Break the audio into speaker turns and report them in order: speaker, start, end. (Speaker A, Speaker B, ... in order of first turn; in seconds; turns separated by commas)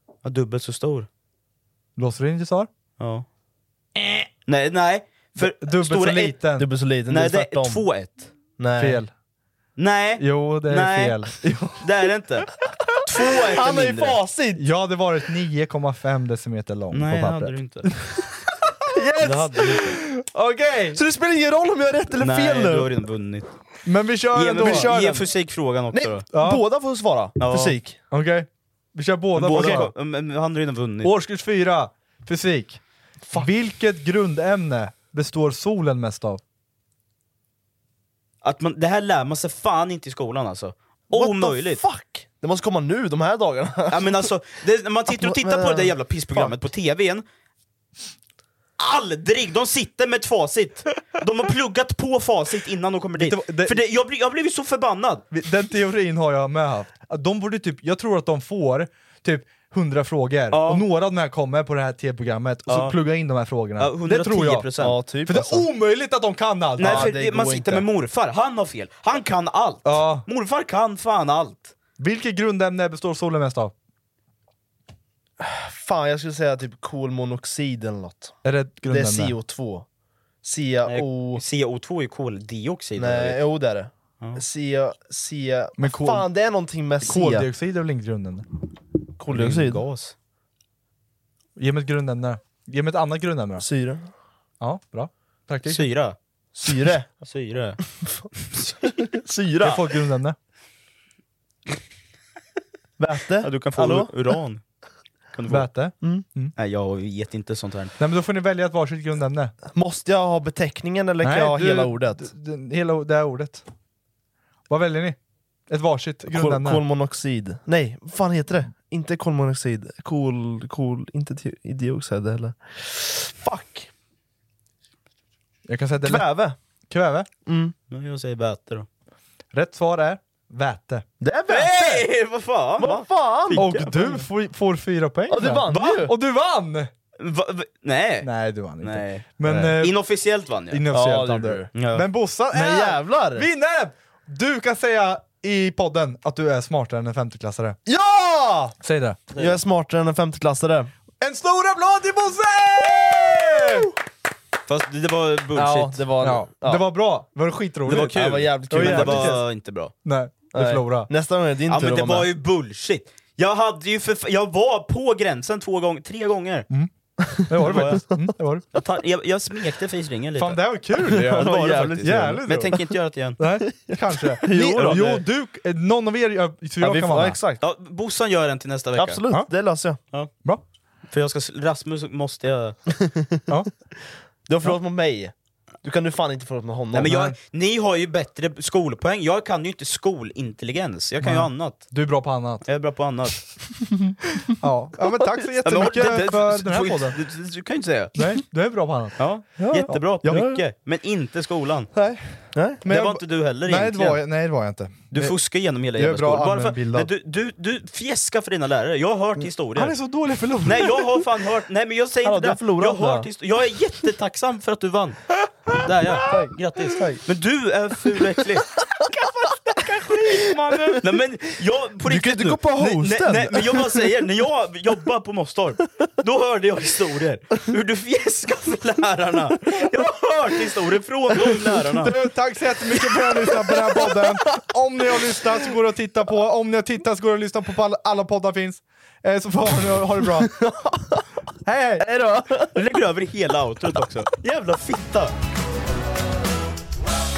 Speaker A: 0.2-1.1, Speaker B: 2.0-2.7, Speaker A: 3.0-3.3, Speaker A: 4.5-6.4, Speaker B: 5.4-6.7, Speaker C: 6.6-7.9, Speaker A: 7.1-8.3, Speaker C: 8.6-9.0, Speaker B: 8.8-9.1, Speaker A: 9.8-11.3, Speaker B: 10.2-11.8, Speaker A: 11.8-12.5, Speaker A: 13.1-14.2, Speaker C: 13.2-14.6, Speaker B: 14.6-17.5, Speaker A: 16.9-17.9, Speaker B: 18.9-21.0, Speaker A: 19.2-19.9, Speaker C: 20.9-22.9, Speaker A: 22.2-23.6, Speaker B: 23.9-24.9, Speaker A: 24.3-26.3, Speaker C: 24.5-25.4, Speaker C: 25.9-28.0, Speaker B: 26.3-26.6, Speaker A: 27.4-27.8, Speaker B: 28.1-29.9, Speaker A: 29.4-31.1, Speaker B: 31.0-32.8, Speaker C: 33.2-33.5, Speaker B: 33.3-36.4, Speaker A: 38.4-41.8, Speaker C: 41.1-44.3, Speaker A: 43.9-47.2, Speaker C: 45.1-46.6, Speaker A: 48.8-55.2, Speaker B: 53.2-53.8, Speaker B: 55.3-64.7, Speaker A: 60.5-60.9, Speaker A: 62.7-63.0, Speaker A: 63.8-65.0, Speaker C: 64.8-65.7, Speaker B: 65.3-67.1, Speaker C: 66.8-67.9, Speaker A: 66.8-71.7, Speaker B: 69.8-70.2, Speaker B: 72.0-73.7, Speaker C: 75.4-78.4, Speaker B: 78.4-79.4, Speaker C: 78.9-79.9, Speaker C: 80.4-81.4, Speaker A: 80.9-83.4, Speaker C: 83.0-87.5, Speaker B: 85.8-86.3, Speaker B: 87.0-88.5, Speaker C: 89.2-89.8, Speaker A: 89.3-90.2, Speaker B: 91.6-93.7, Speaker C: 93.6-94.1, Speaker B: 94.6-95.9, Speaker A: 95.7-96.2, Speaker C: 96.5-97.1, Speaker A: 97.2-97.8, Speaker A: 98.4-98.9, Speaker C: 98.8-99.9, Speaker B: 99.6-100.4, Speaker C: 103.0-104.1, Speaker A: 103.4-104.6, Speaker A: 105.3-105.7, Speaker B: 105.5-106.5, Speaker A: 106.6-108.0, Speaker B: 108.0-109.5, Speaker C: 109.7-112.3, Speaker B: 111.2-113.6, Speaker B: 114.7-115.2, Speaker B: 115.7-116.8, Speaker C: 116.3-123.9, Speaker B: 125.7-126.3, Speaker C: 126.0-126.6, Speaker B: 126.9-127.3, Speaker C: 127.5-127.8, Speaker A: 127.9-128.9, Speaker B: 129.5-131.1, Speaker C: 131.2-132.1, Speaker A: 131.5-134.3, Speaker C: 132.8-133.7, Speaker B: 133.5-136.9, Speaker C: 135.3-136.1, Speaker A: 135.7-136.1, Speaker A: 137.2-138.3, Speaker B: 138.2-139.9, Speaker A: 138.8-140.9, Speaker B: 140.7-147.8, Speaker C: 140.9-141.7, Speaker A: 141.7-142.1, Speaker C: 142.5-143.5, Speaker C: 147.9-148.8, Speaker B: 148.8-149.2, Speaker A: 149.3-149.6, Speaker C: 149.4-150.9, Speaker B: 151.2-153.9, Speaker A: 154.7-156.0, Speaker C: 155.6-156.8, Speaker B: 156.2-158.2, Speaker A: 157.9-159.9, Speaker C: 157.9-159.4, Speaker B: 158.7-159.5, Speaker B: 160.0-161.1, Speaker C: 160.5-162.3, Speaker A: 161.7-166.7, Speaker C: 167.2-168.3, Speaker B: 167.5-168.6, Speaker A: 167.6-168.0, Speaker A: 168.7-173.4, Speaker B: 170.4-172.8, Speaker C: 171.0-172.8, Speaker B: 173.4-177.4, Speaker C: 173.7-175.2, Speaker A: 174.5-175.2, Speaker C: 176.8-177.6, Speaker A: 177.6-179.2, Speaker C: 179.0-180.0, Speaker A: 181.1-182.8, Speaker C: 184.5-185.3, Speaker C: 185.8-187.3, Speaker A: 186.9-191.9, Speaker B: 191.2-192.6, Speaker A: 192.6-193.5, Speaker B: 194.6-197.2, Speaker C: 195.1-195.8, Speaker A: 195.7-198.2, Speaker B: 198.2-200.5, Speaker A: 199.2-201.9, Speaker C: 200.3-200.6, Speaker B: 201.9-205.3, Speaker C: 202.5-202.8, Speaker A: 202.9-204.2, Speaker A: 205.1-210.0, Speaker B: 206.0-207.1, Speaker B: 209.8-211.1, Speaker A: 210.7-215.2, Speaker C: 212.2-213.2, Speaker A: 215.8-218.7, Speaker C: 216.3-217.2, Speaker C: 220.0-221.0, Speaker A: 220.2-232.1, Speaker C: 222.0-224.1, Speaker B: 232.0-240.6, Speaker C: 233.2-234.3, Speaker C: 240.3-241.2, Speaker B: 241.7-242.1, Speaker C: 242.0-242.8, Speaker A: 242.8-245.3